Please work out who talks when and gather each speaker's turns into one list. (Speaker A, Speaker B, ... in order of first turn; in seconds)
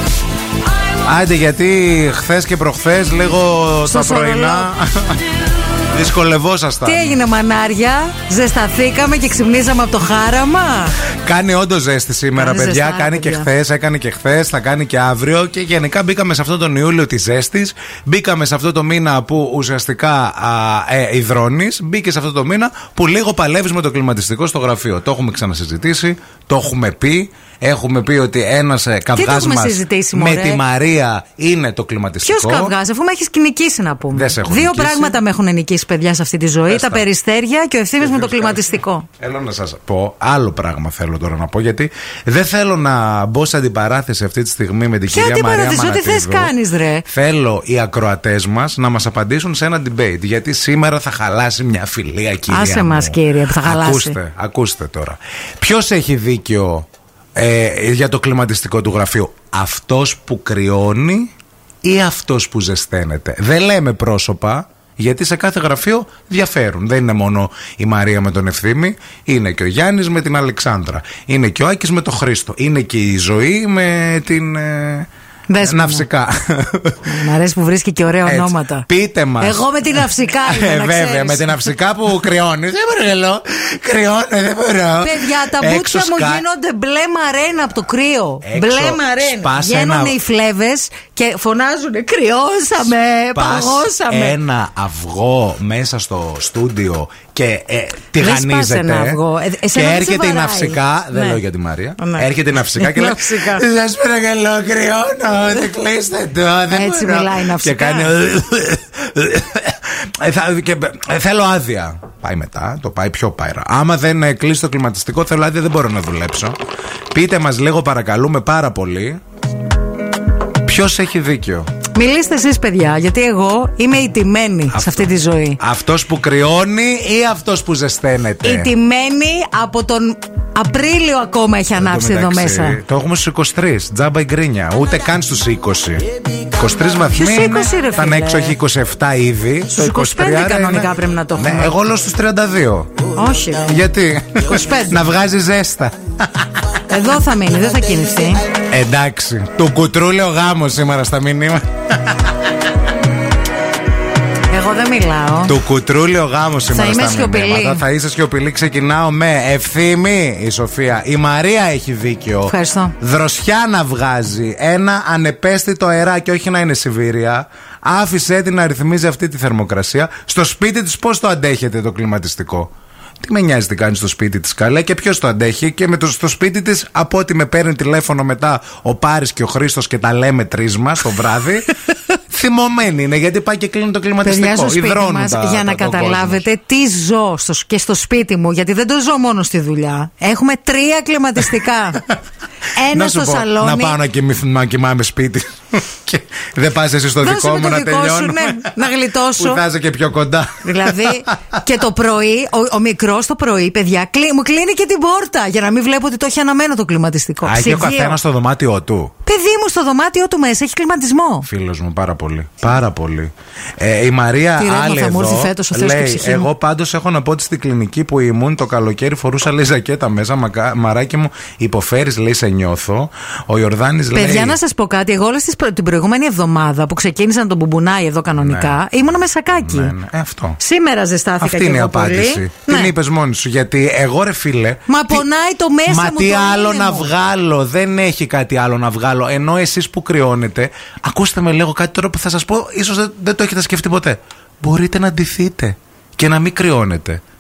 Speaker A: 1.0-5.3, 5.8-7.2, 11.2-32.7, 34.1-35.2, 36.7-37.1, 38.0-46.5, 47.0-61.3, 61.8-75.1, 75.6-77.1, 78.3-79.7, 80.4-86.4, 88.4-90.2, 93.3-99.2, 99.7-116.5, 117.1-119.2, 120.7-121.7, 124.7-125.1, 125.6-128.7, 131.8-142.9, 143.6-146.5, 148.6-152.4, 155.5-181.8, 182.3-186.4, 192.9-198.8, 199.3-201.6, 207.4-209.2, 211.4-224.6, 228.4-228.8, 229.5-230.6, 231.4-235.2, 235.9-247.2
Speaker B: 3.9-4.7, 6.8-11.0, 12.3-13.5, 29.2-30.6, 32.2-39.1, 45.1-47.0, 52.5-54.2, 75.5-76.0, 77.0-78.9, 79.4-81.7, 85.0-94.4, 98.2-101.4, 102.0-103.7, 106.7-108.1, 121.9-125.6, 128.4-132.8, 137.1-138.6, 139.7-141.8, 143.1-143.8, 144.4-145.1, 146.9-148.5, 154.5-155.6, 156.7-157.8, 162.5-162.9, 184.2-192.0, 192.8-194.0, 197.2-199.6, 200.6-208.2, 209.2-211.5, 214.6-216.5, 224.1-229.9, 230.6-232.9, 234.9-237.1